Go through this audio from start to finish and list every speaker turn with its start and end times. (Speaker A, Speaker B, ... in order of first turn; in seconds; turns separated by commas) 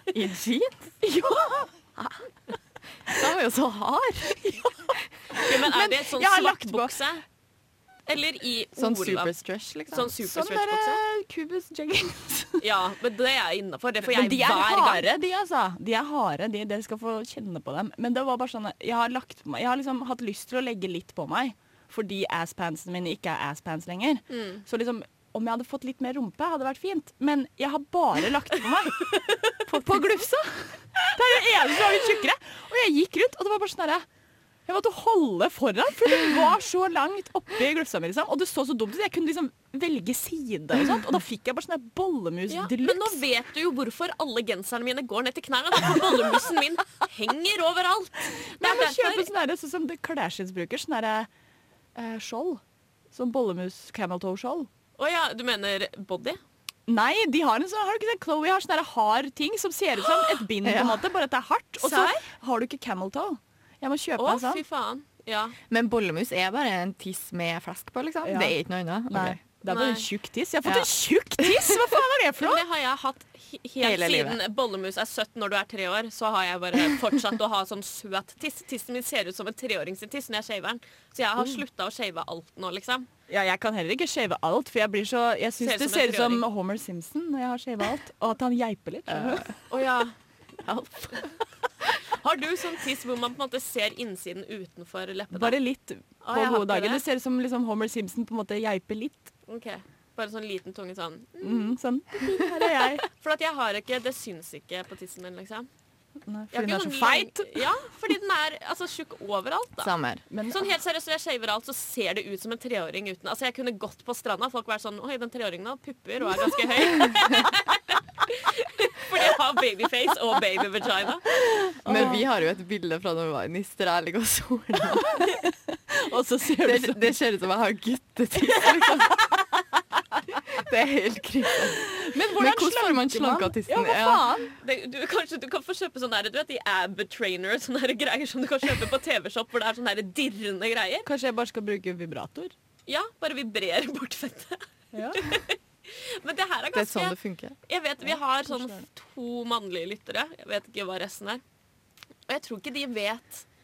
Speaker A: 0.1-1.0, Speaker B: 1.0-1.7, Speaker A: 2.0-2.3, Speaker A: 3.1-4.7, Speaker B: 5.4-7.0, Speaker C: 5.4-7.2, Speaker C: 8.1-9.3, Speaker A: 8.8-10.1, Speaker C: 9.9-11.0, Speaker B: 10.2-12.6, Speaker C: 12.6-15.1, Speaker B: 14.0-30.4, Speaker C: 24.3-24.6, Speaker A: 29.7-30.5, Speaker B: 31.0-34.0, Speaker B: 34.7-43.2, Speaker C: 42.5-49.3, Speaker B: 48.6-51.3, Speaker B: 52.0-52.6, Speaker B: 53.1-54.7, Speaker C: 55.0-56.4, Speaker B: 56.9-64.6, Speaker C: 60.1-60.4, Speaker A: 60.6-61.1, Speaker C: 61.8-62.2, Speaker C: 64.2-65.6, Speaker A: 65.7-69.4, Speaker B: 68.2-68.6, Speaker B: 69.1-72.7, Speaker C: 69.7-70.1, Speaker C: 72.4-83.1, Speaker A: 73.8-74.4, Speaker B: 83.3-89.6, Speaker C: 85.6-86.5, Speaker A: 89.1-89.5, Speaker C: 89.7-90.1, Speaker A: 90.7-91.2, Speaker C: 92.0-95.6, Speaker B: 95.3-99.3, Speaker C: 96.2-97.0, Speaker C: 99.5-101.7, Speaker B: 101.4-103.1, Speaker C: 103.1-105.7, Speaker B: 106.3-107.7, Speaker C: 106.5-109.9, Speaker A: 109.8-110.2, Speaker B: 110.3-110.7, Speaker C: 110.5-121.2, Speaker B: 121.4-122.3, Speaker A: 121.8-125.3, Speaker B: 125.2-127.2, Speaker A: 126.6-129.3, Speaker A: 130.5-134.4, Speaker B: 131.9-134.5, Speaker C: 134.6-141.1, Speaker B: 141.1-142.5, Speaker C: 142.9-151.4, Speaker B: 144.9-145.4, Speaker A: 146.7-147.6, Speaker B: 148.4-148.8, Speaker C: 152.3-153.5